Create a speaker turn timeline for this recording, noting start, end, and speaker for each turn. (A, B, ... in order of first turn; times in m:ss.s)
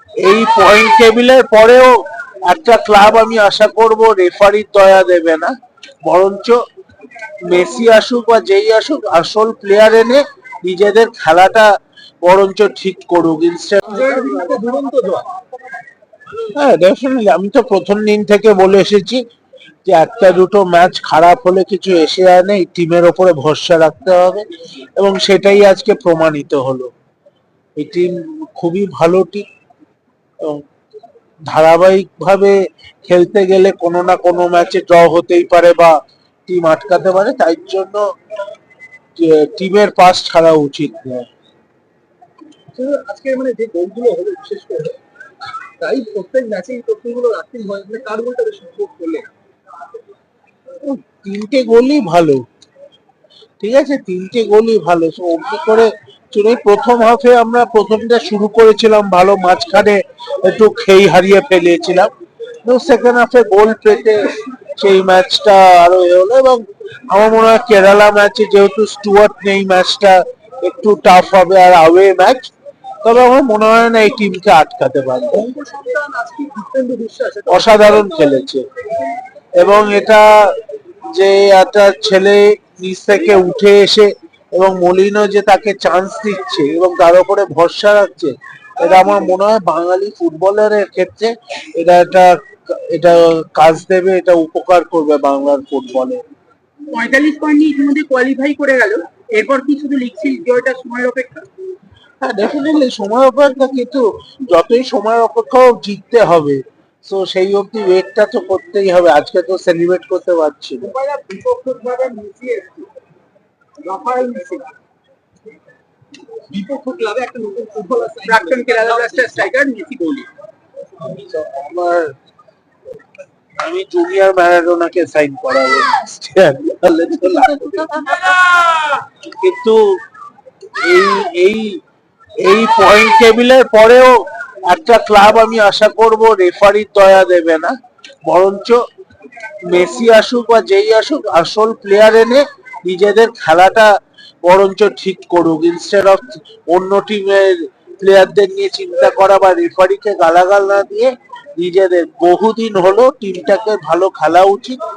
0:00.2-0:05.5 A
0:06.0-0:06.6 A
0:07.5-0:11.7 A
0:12.2-0:14.0 A
0:13.9-0:15.3 B
0:16.5-0:19.2 A
0:19.9-0:26.9 A
0:27.8-0:29.5 A
0:31.5-0:36.0 A
0:36.5-0:38.0 A
0:39.2-0:41.3 A
0:42.7-0:45.0 B
0:45.8-0:49.3 B
0:50.8-0:52.4 A
0:53.6-1:02.1 A
1:02.6-1:15.4 A
1:15.3-1:18.2 B
1:17.5-1:18.7 A
1:19.6-1:20.5 A
1:21.1-1:36.2 A
1:36.9-1:41.4 C
1:42.2-1:50.9 A
1:50.8-1:52.9 B
1:53.8-1:54.7 B
1:56.5-1:59.5 B
1:58.3-2:00.3 C
2:01.0-2:02.1 A
2:03.6-2:08.4 A
2:09.2-2:10.0 A
2:10.8-2:11.8 A
2:12.4-2:17.8 A
2:18.3-2:18.8 A
2:19.7-2:23.9 A
2:24.4-2:34.8 A